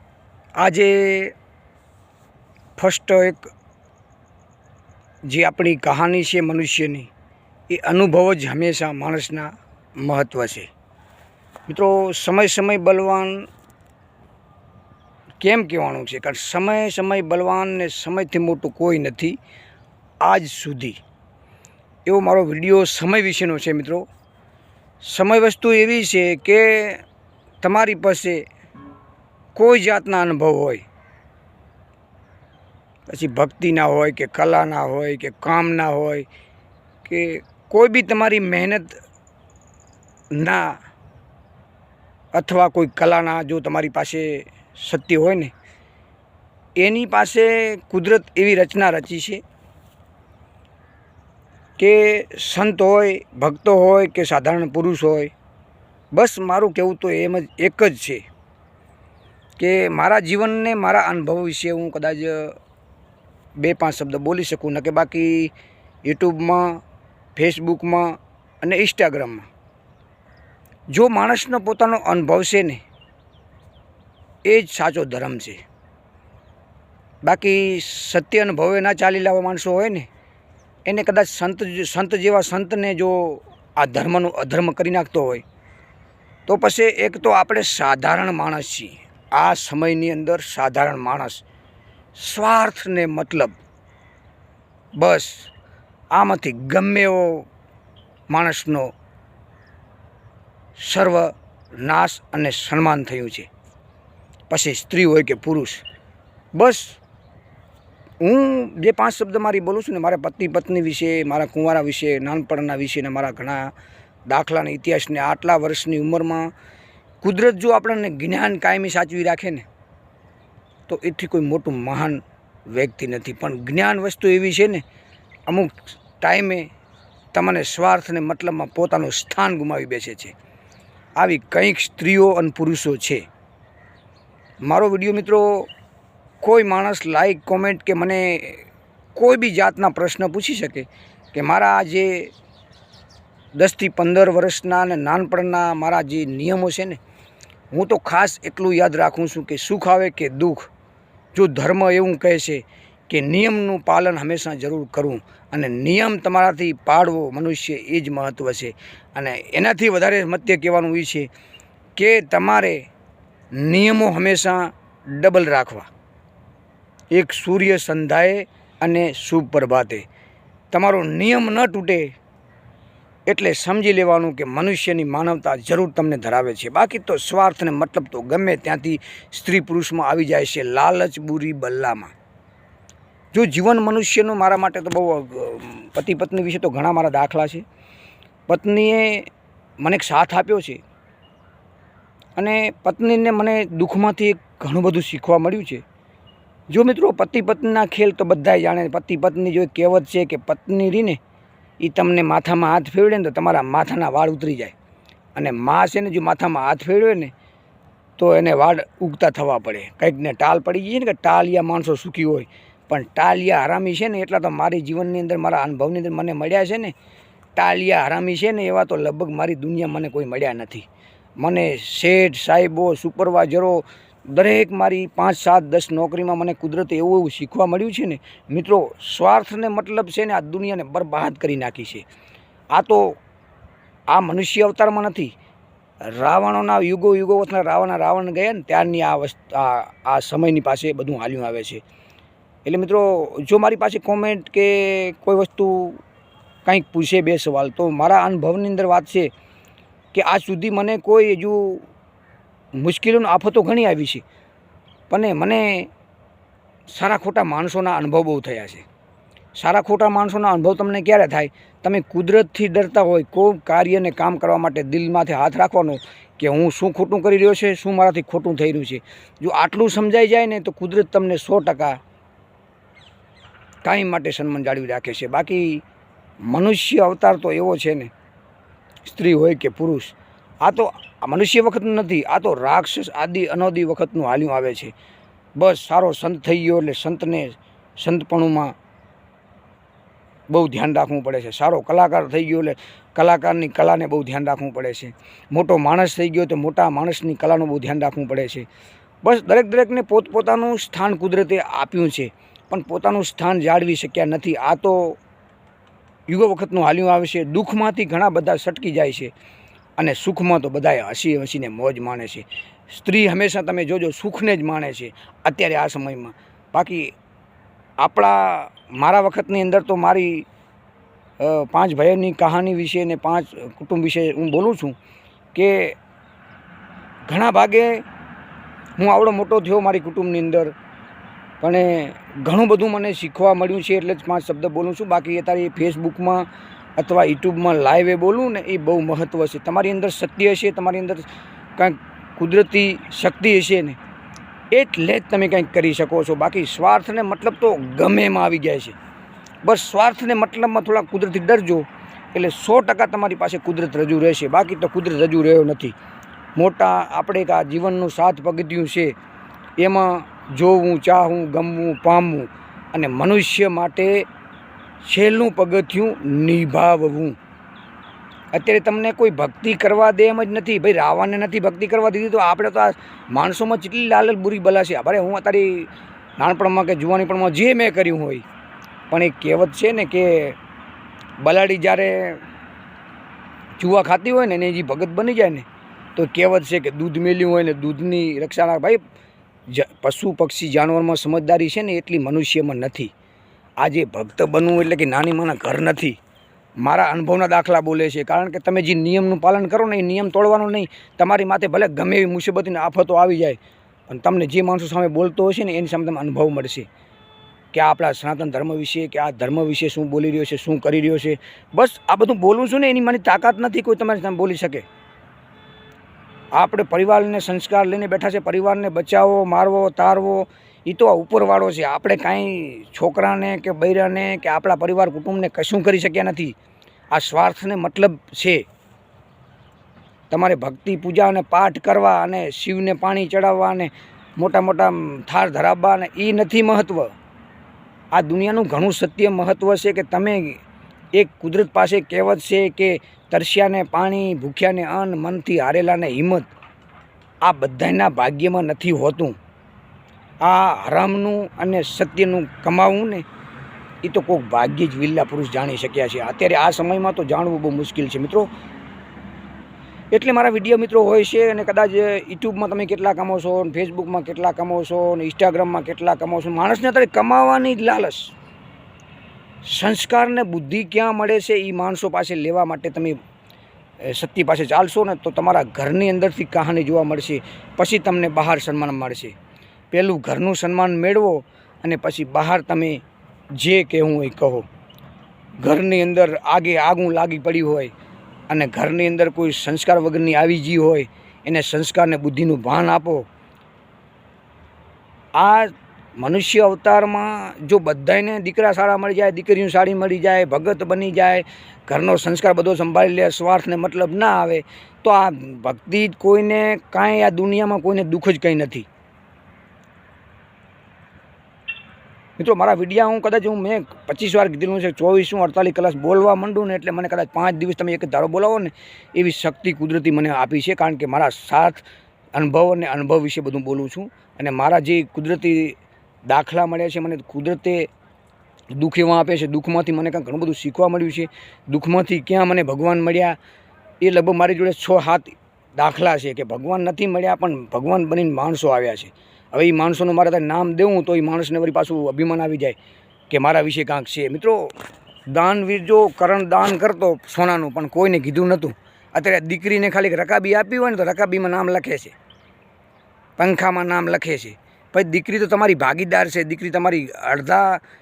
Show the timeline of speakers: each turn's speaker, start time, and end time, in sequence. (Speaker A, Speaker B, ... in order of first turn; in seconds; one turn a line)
Speaker A: 0.6-1.3
Speaker A: 2.8-3.5
Speaker A: 5.3-7.1
Speaker A: 7.7-10.7
Speaker A: 11.7-13.5
Speaker A: 15.4-19.4
Speaker A: 20.2-21.0
Speaker A: 22.1-24.1
Speaker A: 25.0-27.0
Speaker A: 27.6-28.4
Speaker A: 29.6-30.8
Speaker A: 33.1-36.3
Speaker A: 37.0-39.0
Speaker A: 40.3-40.8
Speaker A: 42.3-45.5
Speaker A: 46.8-49.4
Speaker A: 51.8-55.3
Speaker A: 56.1-58.2
Speaker A: 59.6-62.6
Speaker A: 63.6-65.5
Speaker A: 66.0-66.8
Speaker A: 67.4-69.5
Speaker A: 70.9-72.8
Speaker A: 74.5-75.6
Speaker A: 77.2-80.1
Speaker A: 80.8-85.4
Speaker A: 86.5-91.4
Speaker A: 92.2-93.5
Speaker A: 95.0-95.5
Speaker A: 96.1-97.5
Speaker A: 98.3-98.9
Speaker A: 100.8-103.5
Speaker A: 104.5-105.8
Speaker A: 106.5-107.0
Speaker A: 108.2-113.7
Speaker A: 114.3-116.5
Speaker A: 117.2-119.7
Speaker A: 120.9-124.8
Speaker A: 125.5-126.7
Speaker A: 127.3-130.3
Speaker A: 131.2-133.2
Speaker A: 134.6-135.7
Speaker A: 136.4-142.3
Speaker A: 143.5-147.0
Speaker A: 147.7-150.7
Speaker A: 151.3-161.3
Speaker A: 161.9-162.8
Speaker A: 163.5-165.9
Speaker A: 167.1-170.0
Speaker A: 170.7-172.1
Speaker A: 173.2-182.1
Speaker A: 183.3-187.6
Speaker A: 188.5-189.3
Speaker A: 189.8-190.8
Speaker A: 192.3-195.8
Speaker A: 196.7-201.2
Speaker A: 201.8-204.7
Speaker A: 205.3-207.3
Speaker A: 208.2-216.9
Speaker A: 217.5-220.9
Speaker A: 221.4-232.1
Speaker A: 232.7-233.2
Speaker A: 234.1-235.3
Speaker A: 236.0-241.8
Speaker A: 242.6-246.0
Speaker A: 246.6-249.3
Speaker A: 250.1-251.8
Speaker A: 252.8-254.2
Speaker A: 255.1-255.9
Speaker A: 256.9-258.9
Speaker A: 259.6-272.0
Speaker A: 273.8-275.8
Speaker A: 276.4-278.1
Speaker A: 279.0-284.9
Speaker A: 285.6-288.7
Speaker A: 290.5-298.7
Speaker A: 299.2-305.2
Speaker A: 306.3-309.3
Speaker A: 310.0-317.1
Speaker A: 318.0-320.5
Speaker A: 321.4-325.0
Speaker A: 325.5-326.0
Speaker A: 327.3-328.0
Speaker A: 329.0-330.8
Speaker A: 331.6-344.0
Speaker A: 344.7-349.0
Speaker A: 349.6-355.9
Speaker A: 356.6-359.2
Speaker A: 359.8-364.2
Speaker A: 365.0-367.4
Speaker A: 368.5-378.4
Speaker A: 379.1-380.6
Speaker A: 381.4-382.4
Speaker A: 383.8-389.0
Speaker A: 389.7-393.1
Speaker A: 393.8-396.2
Speaker A: 396.8-403.6
Speaker A: 404.1-406.9
Speaker A: 407.7-414.9
Speaker A: 416.5-426.6
Speaker A: 427.1-428.7
Speaker A: 430.3-437.1
Speaker A: 438.1-440.6
Speaker A: 441.1-446.5
Speaker A: 447.4-449.4
Speaker A: 450.4-453.2
Speaker A: 454.0-458.5
Speaker A: 460.1-468.3
Speaker A: 469.6-473.2
Speaker A: 474.0-479.3
Speaker A: 479.9-483.0
Speaker A: 483.6-484.7
Speaker A: 485.6-487.9
Speaker A: 488.5-493.2
Speaker A: 495.4-508.9
Speaker A: 512.4-521.8
Speaker A: 522.3-527.9
Speaker A: 528.7-533.4
Speaker A: 534.0-542.8
Speaker A: 543.3-544.7
Speaker A: 545.3-552.1
Speaker A: 553.4-557.8